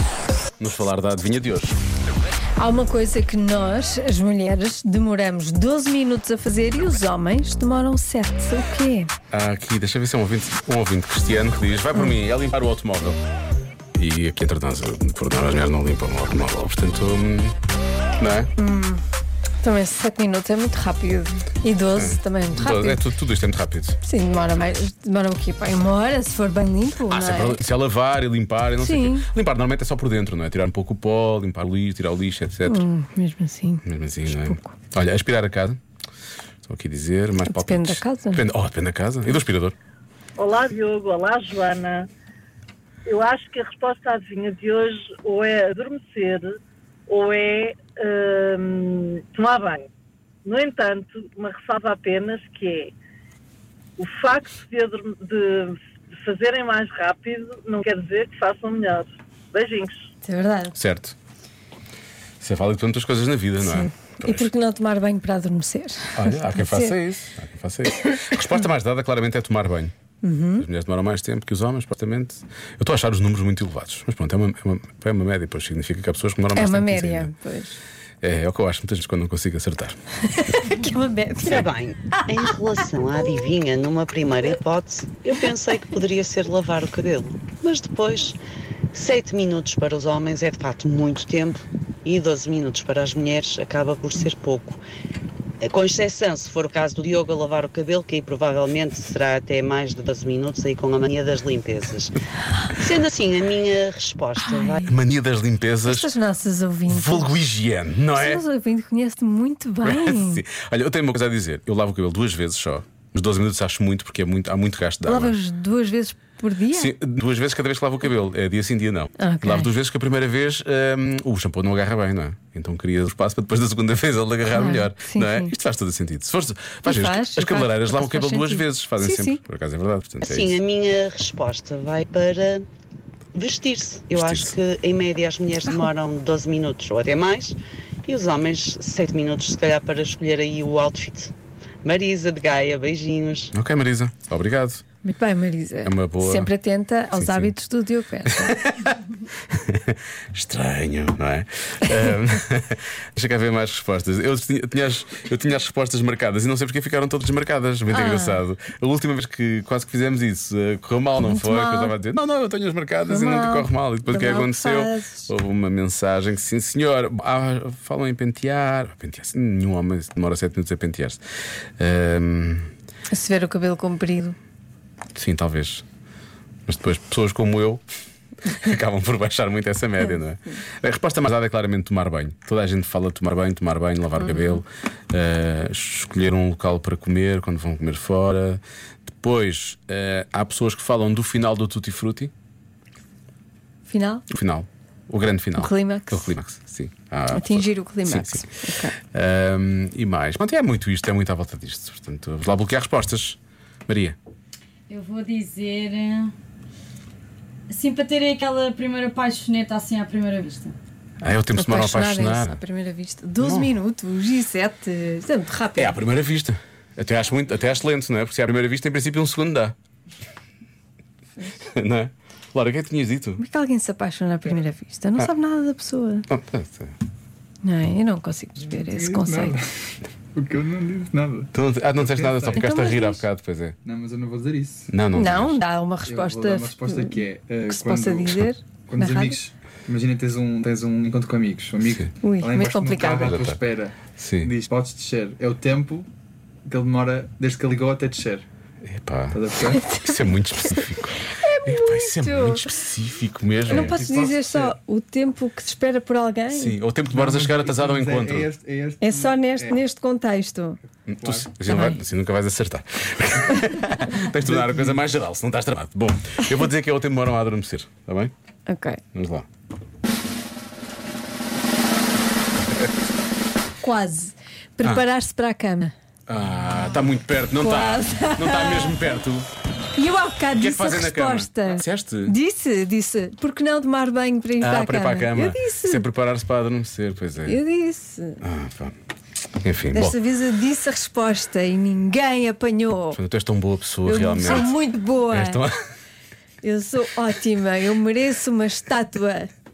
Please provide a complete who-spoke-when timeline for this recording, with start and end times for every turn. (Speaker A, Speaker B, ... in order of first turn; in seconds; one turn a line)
Speaker A: 0.6-1.8
Speaker B: 2.6-9.1
Speaker A: 9.3-13.2
Speaker A: 13.9-17.5
Speaker A: 18.2-18.5
Speaker B: 18.6-19.0
Speaker B: 19.6-23.0
Speaker A: 21.9-24.0
Speaker B: 24.0-27.6
Speaker A: 27.1-32.9
Speaker B: 28.8-29.2
Speaker B: 32.6-34.7
Speaker A: 33.8-35.8
Speaker A: 36.6-39.7
Speaker B: 37.4-38.4
Speaker C: 40.4-42.1
Speaker C: 43.0-49.9
Speaker C: 50.4-52.9
Speaker C: 54.0-60.1
Speaker B: 60.2-60.8
Speaker A: 60.8-61.1
Speaker A: 62.4-64.5
Speaker B: 63.6-67.0
Speaker A: 66.1-69.9
Speaker B: 70.2-70.6
Speaker A: 70.6-77.3
Speaker B: 76.5-77.8
Speaker A: 78.2-80.0
Speaker B: 80.3-82.2
Speaker D: 81.4-88.4
Speaker D: 88.9-94.8
Speaker D: 95.6-102.2
Speaker D: 102.7-104.8
Speaker B: 104.4-104.9
Speaker A: 104.8-106.1
Speaker B: 105.8-107.3
Speaker A: 106.9-108.4
Speaker B: 108.1-110.4
Speaker A: 109.8-115.3
Speaker B: 115.0-116.9
Speaker A: 116.7-130.6
Speaker B: 119.2-119.7
Speaker B: 124.5-125.5
Speaker B: 126.8-129.4
Speaker D: 130.2-132.7
Speaker D: 133.3-143.5
Speaker A: 134.1-134.5
Speaker A: 143.5-144.8
Speaker B: 145.0-148.6
Speaker A: 145.8-146.5
Speaker A: 147.1-147.5
Speaker A: 148.3-148.9
Speaker A: 149.5-171.2
Speaker B: 157.9-158.4
Speaker B: 161.2-161.9
Speaker B: 163.1-165.3
Speaker A: 171.8-172.7
Speaker B: 173.1-174.4
Speaker A: 175.1-175.8
Speaker A: 176.7-177.8
Speaker A: 178.5-192.3
Speaker B: 193.9-194.2
Speaker A: 194.3-198.4
Speaker B: 195.6-196.3
Speaker B: 197.3-198.9
Speaker A: 199.0-204.2
Speaker E: 204.9-206.3
Speaker E: 207.7-210.8
Speaker A: 211.2-212.6
Speaker B: 211.5-215.9
Speaker A: 213.4-213.7
Speaker A: 215.8-219.7
Speaker A: 221.6-223.4
Speaker B: 223.4-226.2
Speaker A: 226.3-226.9
Speaker B: 227.6-229.6
Speaker F: 228.7-229.6
Speaker F: 230.3-232.6
Speaker A: 231.5-233.8
Speaker B: 232.5-233.2
Speaker F: 233.8-234.9
Speaker A: 234.9-235.6
Speaker B: 235.1-239.4
Speaker F: 236.0-246.1
Speaker A: 241.8-242.1
Speaker B: 242.2-243.3
Speaker A: 243.2-243.6
Speaker A: 244.2-244.5
Speaker F: 246.7-248.4
Speaker A: 248.8-249.4
Speaker F: 249.3-249.8
Speaker B: 249.7-250.4
Speaker A: 250.0-254.0
Speaker B: 251.3-252.6
Speaker B: 253.7-256.8
Speaker F: 253.7-254.8
Speaker A: 256.5-258.5
Speaker F: 257.1-259.8
Speaker B: 259.0-260.8
Speaker A: 261.1-268.3
Speaker F: 261.1-261.6
Speaker B: 261.7-262.0
Speaker F: 264.5-265.0
Speaker B: 268.7-269.0
Speaker A: 269.1-269.4
Speaker B: 273.8-275.9
Speaker A: 276.3-279.5
Speaker B: 277.6-279.0
Speaker B: 279.9-286.0
Speaker A: 280.6-282.4
Speaker A: 284.6-287.6
Speaker B: 287.4-288.4
Speaker A: 288.4-288.9
Speaker A: 289.6-290.2
Speaker B: 289.9-293.2
Speaker A: 293.1-295.7
Speaker B: 294.1-295.6
Speaker B: 296.6-299.5